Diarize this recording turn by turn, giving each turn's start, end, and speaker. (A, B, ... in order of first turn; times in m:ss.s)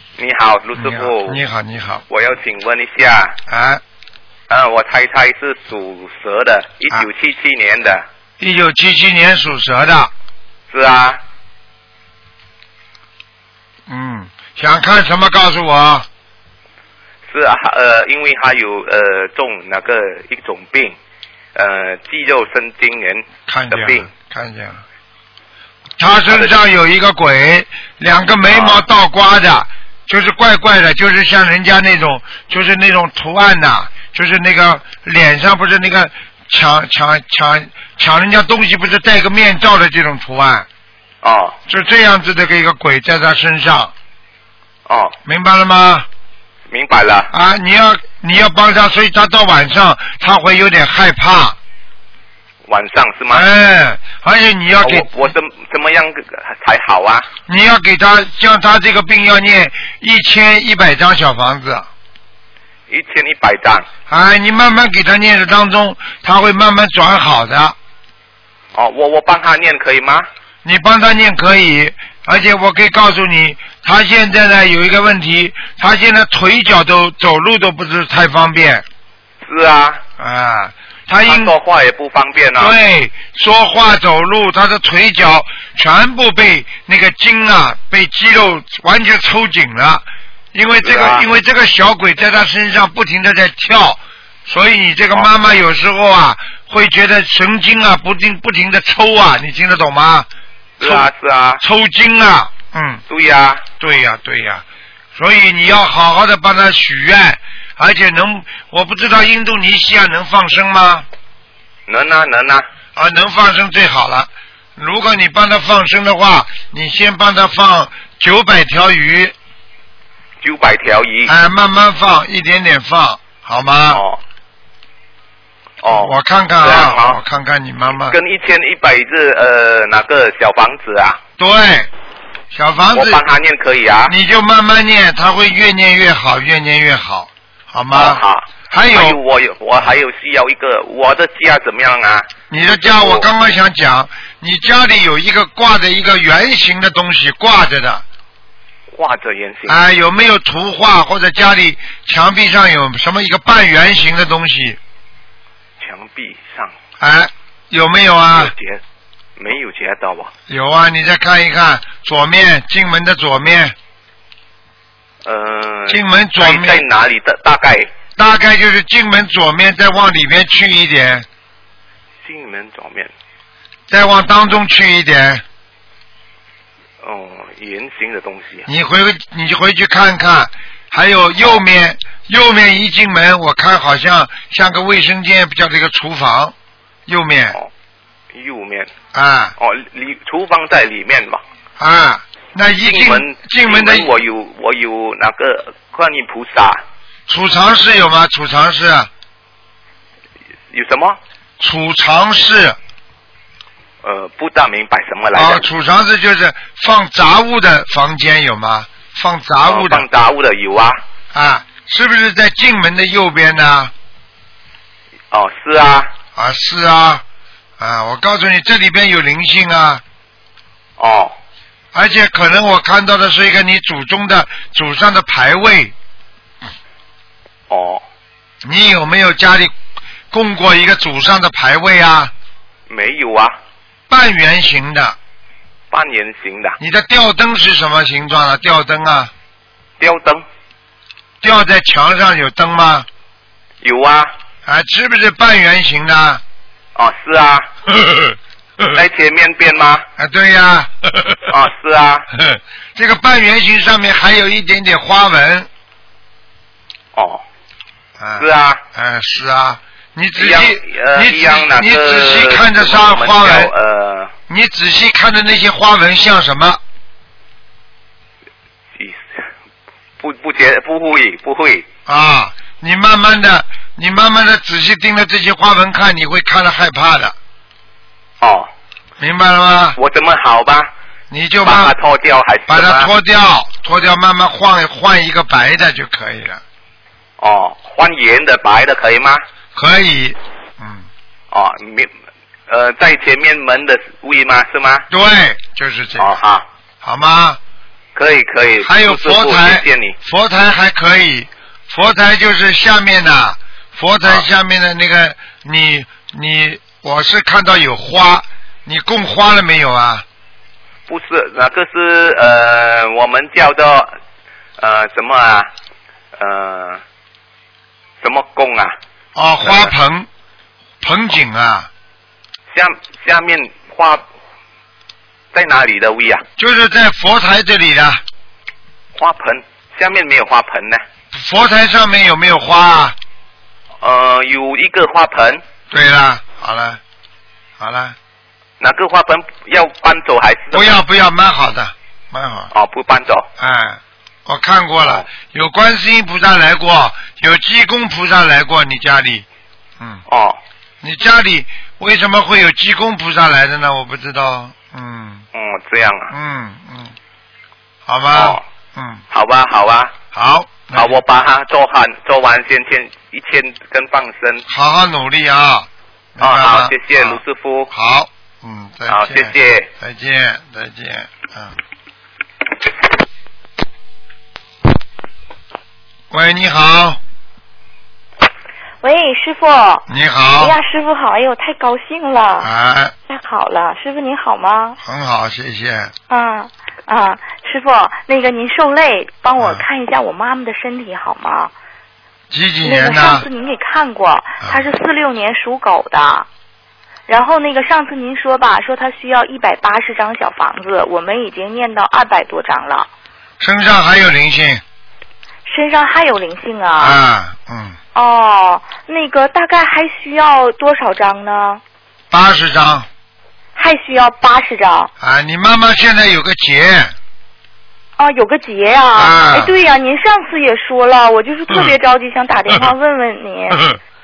0:00.2-0:01.4 A
0:00.8-0:02.0 B
0:02.1-0:03.4 A
0:03.5-0:03.8 B
0:04.5-0:08.0 A
0:08.4-0:10.1 B
0:10.7-0:11.2 A
0:13.9-0:16.0 B
0:17.3-0:21.0 A
0:21.5-0:24.1 A
0:23.5-0:24.8 B
0:26.0-0:40.6 B
0:28.5-0:28.8 A
0:41.2-0:41.6 A
0:41.7-0:43.9 B
0:44.9-0:45.2 A
0:45.2-0:46.1 B
0:46.7-0:47.3 A
0:47.3-0:51.6 B
0:52.7-0:53.4 A
0:53.3-0:55.1 B
0:54.8-0:57.3 A
0:57.5-1:01.9 B
1:02.9-1:03.9 A
1:04.1-1:07.8 B
1:08.7-1:10.3 A
1:10.6-1:18.8 B
1:19.4-1:20.0 A
1:20.2-1:21.5 B
1:21.2-1:22.8 A
1:22.6-1:40.3 B
1:30.8-1:31.2 A
1:40.8-1:41.1 B
1:40.8-1:41.6 A
1:41.6-1:43.0 B
1:43.1-1:43.6 A
1:43.8-1:51.0 B
1:51.9-1:52.6 A
1:53.0-1:59.3 B
2:00.4-2:01.3 A
2:01.3-2:04.0 B
2:03.9-2:04.2 A
2:05.8-2:07.2 A
2:05.9-2:08.2 B
2:07.9-2:11.2 A
2:11.4-2:11.9 B
2:12.5-2:13.2 B
2:12.9-2:14.1 A
2:14.1-2:19.2 B
2:17.9-2:23.3 A
2:22.5-2:28.0 B
2:28.9-2:29.8 A
2:29.7-2:34.8 B
2:35.8-2:36.7 A
2:37.0-2:38.5 B
2:38.3-2:38.8 A
2:39.4-2:40.3 A
2:40.5-2:43.7 B
2:45.2-2:47.9 A
2:45.9-2:46.8 B
2:48.2-2:51.2 B
2:52.2-2:53.1 A
2:53.9-2:55.4 B
2:57.0-2:58.7 A
2:58.7-3:06.5 B
3:07.1-3:07.6 B
3:08.3-3:08.9 A
3:09.1-3:09.5 B
3:09.6-3:11.4 A
3:11.8-3:14.1 B
3:12.8-3:16.8 A
3:17.3-3:19.1 B
3:20.7-3:21.2 A
3:21.6-3:22.8 B
3:24.0-3:25.6 A
3:25.3-3:30.0 B
3:29.6-3:31.0 A
3:31.3-3:33.9 B
3:35.3-3:36.1 A
3:36.4-3:37.2 B
3:37.8-3:40.0 B
3:41.0-3:41.3 A
3:41.9-3:45.9 B
3:47.7-3:48.0 A
3:48.6-3:49.7 B
3:50.3-3:52.3 B
3:52.9-3:53.5 A
3:54.1-3:55.2 B
3:55.9-3:56.8 A
3:56.8-3:59.3 B
4:00.0-4:00.4 A
4:01.4-4:03.1 B
4:03.8-4:04.3 A
4:04.6-4:06.4 B
4:06.9-4:07.7 A
4:08.0-4:08.9 B
4:08.9-4:10.0 A
4:10.2-4:11.4 B
4:11.5-4:12.3 A
4:12.4-4:15.7 B
4:17.1-4:17.4 A
4:18.2-4:23.7 B
4:18.4-4:18.8 A
4:20.4-4:24.3 A
4:24.5-4:26.8 B
4:29.0-4:29.4 A
4:30.2-4:31.9 A
4:32.1-4:37.3 B
4:38.4-4:38.7 A
4:39.2-4:40.0 B
4:40.0-4:40.9 A
4:41.3-4:41.9 B
4:41.6-4:43.1 A
4:42.7-4:46.6 B
4:47.4-4:49.4 A
4:49.7-4:51.0 B
4:51.5-4:52.1 A
4:52.7-4:55.1 A
4:55.1-4:56.4 B
4:56.2-4:56.6 A
4:57.0-4:57.6 B
4:58.1-5:00.2 A
4:58.8-5:10.2 B
5:11.1-5:14.1 A
5:14.8-5:15.7 A
5:16.3-5:17.0 A
5:18.2-5:18.9 A
5:19.3-5:20.3 B
5:19.6-5:19.9 A
5:21.0-5:21.9 B
5:22.7-5:24.2 A
5:25.5-5:26.4 A
5:26.6-5:28.2 B
5:29.1-5:31.0 A
5:31.3-5:33.2 B
5:34.0-5:35.6 A
5:35.9-5:37.0 B
5:37.8-5:38.1 B
5:38.8-5:41.0 A
5:40.7-5:42.7 B
5:42.7-5:43.5 A
5:43.6-5:49.4 B
5:50.3-5:50.6 A
5:51.0-5:55.4 B
5:55.5-5:56.3 A
5:56.3-5:57.1 B
5:58.1-5:59.2 B
5:58.3-5:58.6 A
5:59.3-6:00.1 A
6:00.3-6:01.2 B
6:00.9-6:04.6 A
6:04.7-6:11.8 B
6:06.4-6:07.9 A
6:09.1-6:09.9 A
6:16.3-6:17.2 B
6:19.0-6:20.0 C
6:20.1-6:20.8 B
6:20.6-6:22.7 C
6:22.6-6:23.1 B
6:23.3-6:25.0 C
6:25.0-6:26.1 B
6:26.3-6:31.7 C
6:29.6-6:29.8 B
6:32.5-6:33.5 B
6:32.8-6:36.5 C
6:37.3-6:43.1 C
6:43.6-6:44.8 B
6:45.6-6:47.2 C
6:47.0-6:48.0 B
6:48.1-6:51.8 C
6:52.3-6:53.1 B
6:53.8-6:55.1 C
6:55.2-6:57.1 B
6:58.2-7:03.9 C
6:59.1-6:59.7 B
7:03.7-7:04.0 B